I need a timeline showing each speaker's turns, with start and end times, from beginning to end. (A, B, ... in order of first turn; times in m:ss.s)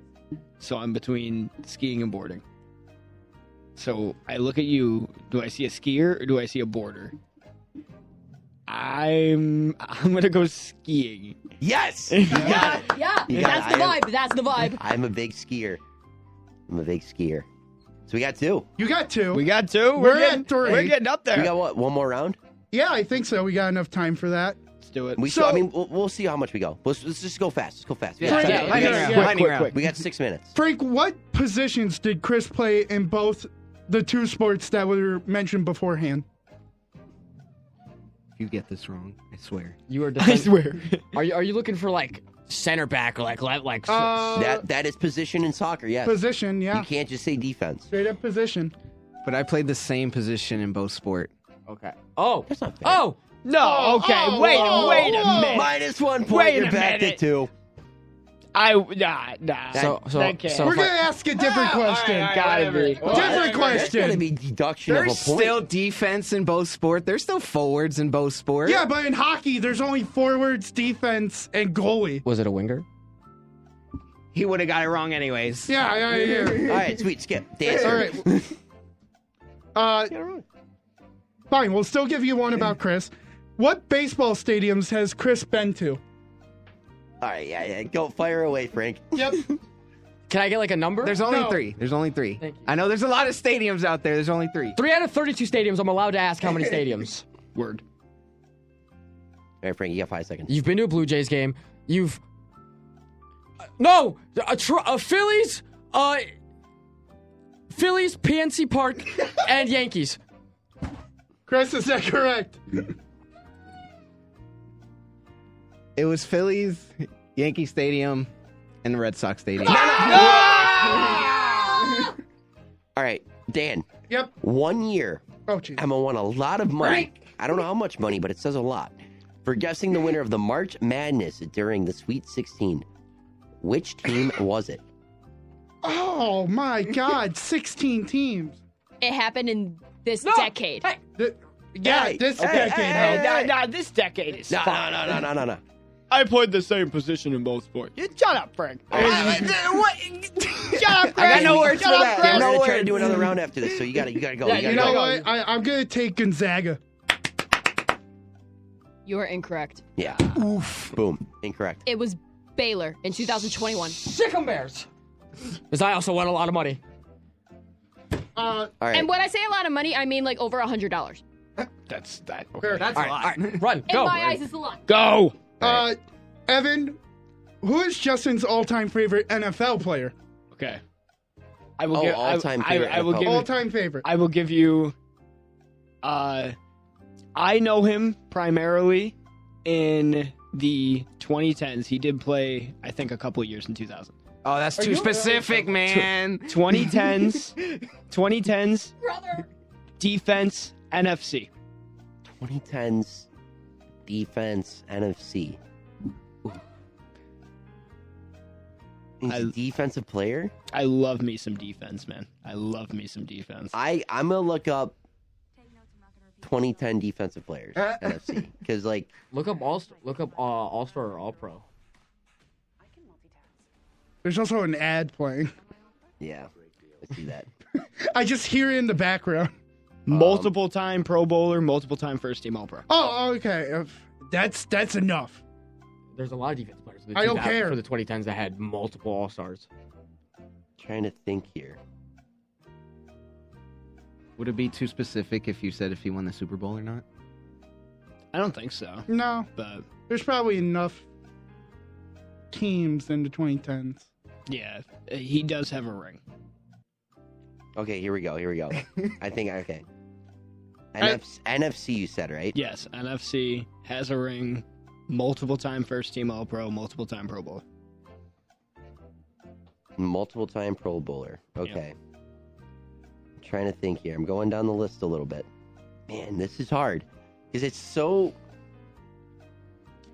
0:00.6-0:02.4 A
0:03.8-0:07.2 A
0:08.7-0:11.4 A
0:11.6-0:14.1 B
0:12.1-0:12.8 A
0:12.5-0:14.8 C
0:14.8-0:15.8 B
0:16.7-0:17.5 B
0:18.1-0:18.7 B
0:18.8-0:21.0 D
0:19.3-0:21.6 A
0:21.3-0:22.4 B
0:22.7-0:24.6 D
0:24.8-0:25.2 A
0:25.2-0:30.5 B
0:25.2-0:25.7 D
0:28.2-0:29.8 E
0:28.2-0:29.4 D
0:28.3-0:29.8 A
0:30.6-0:36.2 D
0:38.4-0:39.8 E
0:39.9-0:44.4 F
0:40.2-0:41.1 A
0:43.9-0:44.6 D
0:44.4-0:46.2 B
0:46.0-0:46.9 D
0:46.7-0:47.9 B
0:47.9-0:48.7 D
0:49.2-0:51.3 E
0:51.7-0:53.2 F
0:52.5-0:53.0 B
0:53.4-0:57.2 A
0:53.6-0:55.7 D
0:55.4-0:57.5 B
0:58.6-1:00.8 A
0:59.7-1:00.0 B
0:59.7-1:01.0 F
1:00.6-1:04.2 D
1:01.5-1:01.8 E
1:01.7-1:03.8 A
1:02.4-1:03.4 E
1:03.0-1:05.7 B
1:04.9-1:08.8 E
1:08.6-1:12.2 D
1:12.2-1:12.8 F
1:14.3-1:16.9 E
1:15.7-1:16.8 D
1:16.6-1:18.5 B
1:17.7-1:18.0 E
1:17.7-1:18.3 D
1:19.8-1:20.1 D
1:20.1-1:20.4 B
1:21.5-1:26.0 D
1:27.2-1:29.6 B
1:29.1-1:29.4 D
1:30.3-1:31.2 F
1:31.0-1:34.8 E
1:31.2-1:31.6 D
1:32.4-1:32.7 F
1:34.8-1:37.2 F
1:37.6-1:37.8 A
1:39.6-1:40.5 B
1:40.5-1:42.2 F
1:43.8-1:46.3 F
1:47.7-1:50.2 F
1:51.5-1:52.9 D
1:56.0-1:58.3 E
1:58.8-2:01.2 E
1:59.6-2:01.5 D
1:59.7-2:00.7 B
2:00.2-2:00.7 A
2:03.0-2:03.9 B
2:04.1-2:04.3 D
2:04.4-2:05.2 B
2:05.5-2:05.8 D
2:05.8-2:08.9 B
2:06.8-2:07.1 E
2:09.4-2:12.8 B
2:13.6-2:14.8 B
2:15.8-2:18.6 D
2:19.0-2:20.8 C
2:20.2-2:21.0 F
2:21.2-2:23.3 D
2:21.8-2:23.5 B
2:22.4-2:25.2 A
2:24.5-2:25.6 B
2:26.1-2:29.9 A
2:28.9-2:29.5 B
2:29.0-2:33.3 E
2:30.7-2:33.0 A
2:31.2-2:35.0 B
2:31.6-2:32.5 C
2:34.4-2:35.3 F
2:34.6-2:36.8 D
2:39.1-2:39.9 C
2:40.0-2:40.3 B
2:40.3-2:40.9 D
2:40.9-2:41.8 B
2:41.9-2:44.0 C
2:43.9-2:44.9 F
2:45.6-2:46.8 F
2:48.4-2:48.7 D
2:48.8-2:49.1 B
2:48.9-2:51.2 C
2:51.9-2:53.1 A
2:52.6-2:53.0 D
2:52.7-2:53.6 E
2:52.9-2:54.4 F
2:53.9-2:54.8 C
2:54.9-2:55.4 A
2:55.6-2:55.9 B
2:55.6-2:57.0 D
2:57.6-3:00.1 D
3:00.5-3:00.8 A
3:01.8-3:05.0 A
3:01.9-3:03.5 B
3:03.2-3:04.1 D
3:06.0-3:06.6 A
3:07.4-3:14.2 A
3:14.4-3:17.5 E
3:14.8-3:16.0 D
3:15.8-3:17.6 A
3:18.1-3:19.0 A
3:19.0-3:19.5 C
3:20.0-3:21.5 A
3:22.3-3:23.3 B
3:24.1-3:25.6 B
3:29.2-3:30.5 B
3:29.3-3:29.5 A
3:30.7-3:33.7 A
3:33.7-3:35.0 B
3:36.4-3:39.1 B
3:37.8-3:38.4 E
3:39.3-3:41.6 F
3:44.2-3:45.5 D
3:46.2-3:46.5 B
3:47.0-3:47.5 B
3:48.0-3:49.5 D
3:50.1-3:52.9 A
3:50.1-3:50.5 B
3:52.9-3:55.4 D
3:56.2-3:59.7 F
3:57.2-3:57.8 D
4:00.8-4:01.8 B
4:04.4-4:07.0 E
4:08.3-4:09.9 A
4:09.1-4:09.5 D
4:10.1-4:11.0 D
4:12.5-4:14.1 D
4:14.5-4:16.2 A
4:17.8-4:19.8 B
4:20.9-4:22.6 B
4:22.5-4:27.6 A
4:30.0-4:32.0 B
4:33.4-4:35.5 B
4:36.1-4:38.4 B